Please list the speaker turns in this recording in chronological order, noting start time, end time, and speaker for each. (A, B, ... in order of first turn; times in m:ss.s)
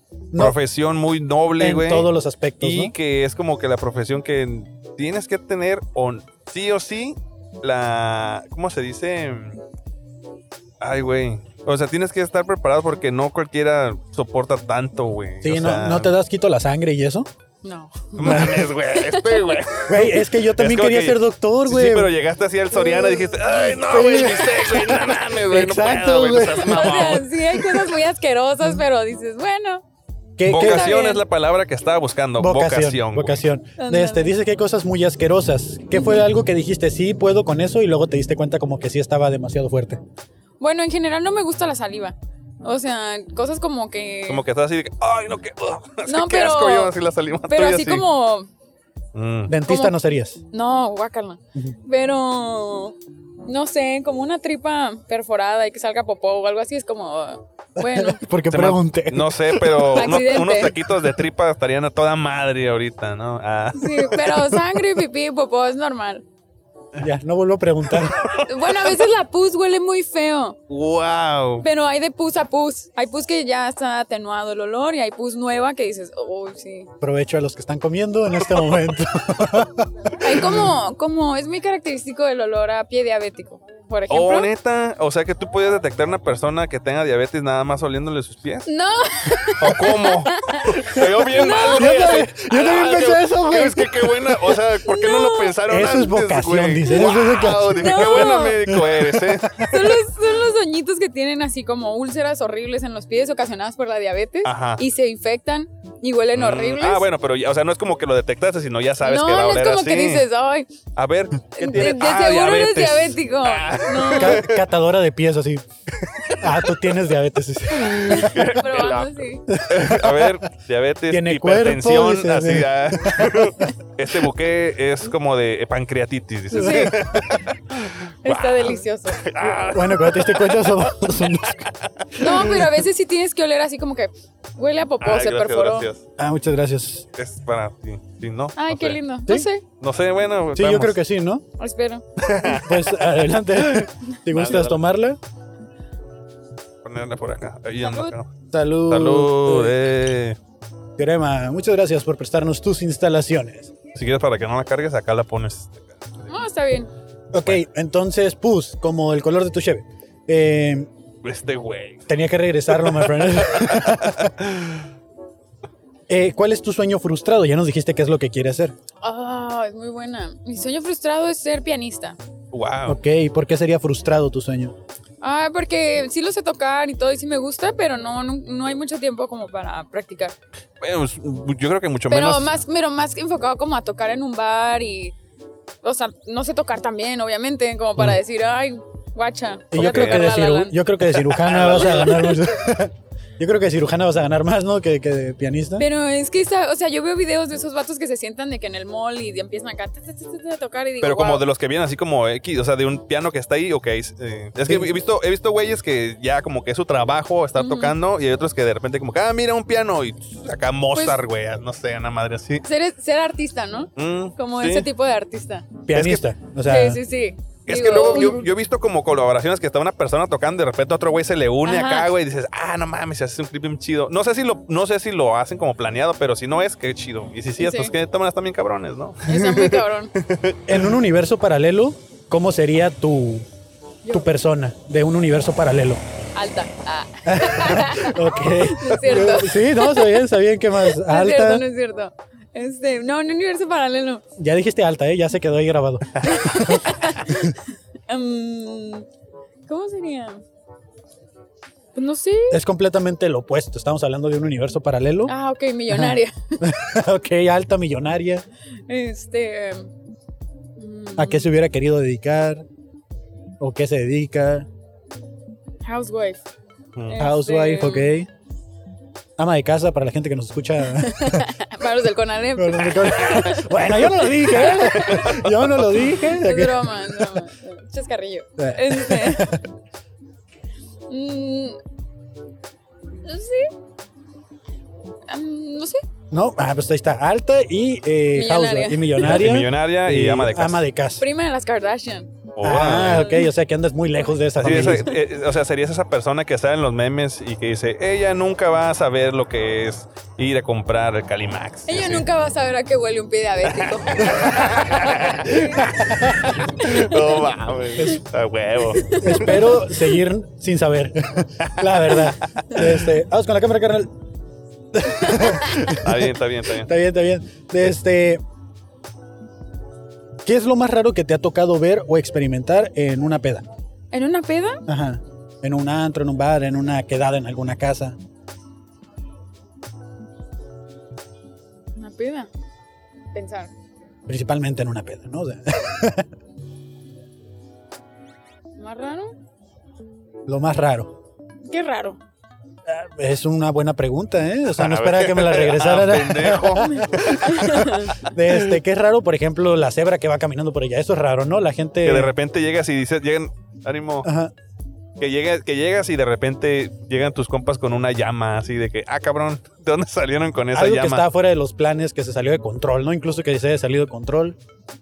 0:00.3-0:09.6 A
0:01.6-0:02.9 B
0:10.8-0:16.1 A
0:15.4-0:17.3 B
0:17.6-0:19.7 C
0:18.2-0:27.8 A
0:18.2-0:18.7 B
0:19.9-0:22.1 B
0:22.9-0:23.2 C
0:23.8-0:27.2 B
0:26.5-0:29.8 C
0:30.4-0:30.9 B
0:30.5-0:33.4 A
0:30.5-0:31.2 C
0:32.4-0:40.0 B
0:33.8-0:34.3 C
0:35.9-0:36.2 C
0:40.6-0:44.4 C
0:44.3-0:48.0 A
0:46.0-0:46.9 C
0:47.5-0:48.5 C
0:49.1-0:49.6 A
0:49.5-0:50.4 B
0:49.6-0:49.9 C
0:50.5-0:58.2 C
0:57.8-0:59.9 B
0:58.5-1:04.6 A
0:59.8-1:00.7 C
1:03.8-1:06.2 C
1:07.0-1:08.3 B
1:08.0-1:08.4 A
1:08.4-1:10.6 C
1:10.7-1:11.6 A
1:11.6-1:16.9 C
1:17.0-1:19.9 B
1:20.2-1:24.5 C
1:24.1-1:28.7 A
1:28.6-1:32.2 C
1:29.6-1:39.7 A
1:31.7-1:34.6 B
1:34.8-1:35.6 C
1:35.6-1:40.0 B
1:37.7-1:38.6 C
1:39.6-1:47.0 C
1:44.4-1:44.8 A
1:46.3-1:50.3 A
1:49.0-1:50.7 C
1:51.0-1:54.6 A
1:51.5-1:54.4 C
1:54.1-1:55.6 B
1:56.3-1:58.5 B
1:58.1-1:59.5 C
1:58.1-2:12.6 A
1:59.5-2:00.4 B
2:01.1-2:03.5 B
2:06.5-2:06.9 C
2:06.5-2:07.2 B
2:08.2-2:09.5 C
2:09.7-2:11.6 B
2:12.2-2:15.9 C
2:15.0-2:16.0 A
2:16.2-2:17.1 B
2:17.2-2:19.0 A
2:18.6-2:19.6 C
2:19.8-2:21.0 A
2:20.6-2:21.4 B
2:21.6-2:22.0 C
2:22.2-2:22.9 A
2:22.4-2:25.2 B
2:23.7-2:24.8 A
2:26.8-2:28.3 A
2:27.8-2:28.1 C
2:28.5-2:29.7 B
2:28.9-2:30.4 A
2:31.0-2:33.7 B
2:33.9-2:35.8 A
2:36.3-2:36.9 C
2:37.3-2:40.9 B
2:37.3-2:37.6 A
2:41.2-2:42.1 A
2:42.1-2:44.3 B
2:42.8-2:44.8 A
2:46.1-2:48.7 B
2:49.0-2:52.2 C
2:52.5-2:53.0 A
2:52.8-2:54.7 B
2:55.2-3:00.3 C
3:00.8-3:02.5 A
3:02.1-3:05.1 C
3:05.8-3:10.8 C
3:09.7-3:15.8 B
3:09.8-3:10.3 A
3:11.2-3:12.4 A
3:11.7-3:12.3 C
3:15.8-3:21.4 C
3:21.0-3:32.6 A
3:24.6-3:24.9 B
3:27.6-3:27.9 C
3:30.9-3:31.2 C
3:32.6-3:35.8 C
3:34.0-3:34.9 A
3:35.8-3:37.0 B
3:35.9-3:36.2 A
3:36.7-3:38.4 C
3:37.7-3:50.9 A
3:41.6-3:42.1 C
3:47.6-3:47.9 C
3:49.2-3:50.1 C
3:50.7-3:53.4 B
3:54.0-3:54.3 C
3:54.1-3:56.0 B
3:56.3-4:04.2 C
3:57.2-4:01.6 B
4:04.4-4:07.5 B
4:06.2-4:09.0 C
4:09.7-4:10.4 C
4:11.9-4:12.6 C
4:12.5-4:15.3 B
4:15.3-4:16.6 C
4:15.9-4:18.4 B
4:18.9-4:19.9 C
4:20.8-4:21.5 C
4:21.2-4:22.6 B
4:23.6-4:24.7 B
4:25.8-4:26.4 C
4:27.1-4:28.1 C
4:27.2-4:28.3 B
4:29.4-4:31.5 B
4:30.9-4:35.3 C
4:32.6-4:37.4 B
4:34.6-4:35.5 A
4:36.2-4:39.6 C
4:38.6-4:39.6 B
4:41.1-4:41.8 C
4:43.2-4:43.7 C
4:45.3-4:46.0 C
4:46.3-4:51.2 B
4:48.3-4:49.5 C
4:49.2-4:50.8 A
4:51.2-4:52.3 C
4:52.6-4:53.3 A
4:52.6-4:55.2 B
4:52.9-4:53.5 C
4:54.6-5:02.2 A
5:01.9-5:05.9 C
5:03.7-5:09.6 A
5:06.4-5:07.2 C
5:08.9-5:09.7 C
5:09.2-5:14.1 B
5:14.9-5:18.4 B
5:15.8-5:16.9 A
5:20.4-5:23.6 B
5:24.1-5:24.8 C
5:24.9-5:28.2 B
5:32.0-5:32.5 C
5:33.3-5:33.7 C
5:34.3-5:36.2 B
5:38.8-5:39.3 C
5:40.5-5:41.2 B
5:41.7-5:42.2 C
5:42.9-5:52.3 B
5:44.8-5:48.0 A
5:47.2-5:48.1 C
5:52.0-5:54.3 A
5:54.2-5:54.5 B
5:55.2-6:01.2 A
6:00.7-6:04.6 B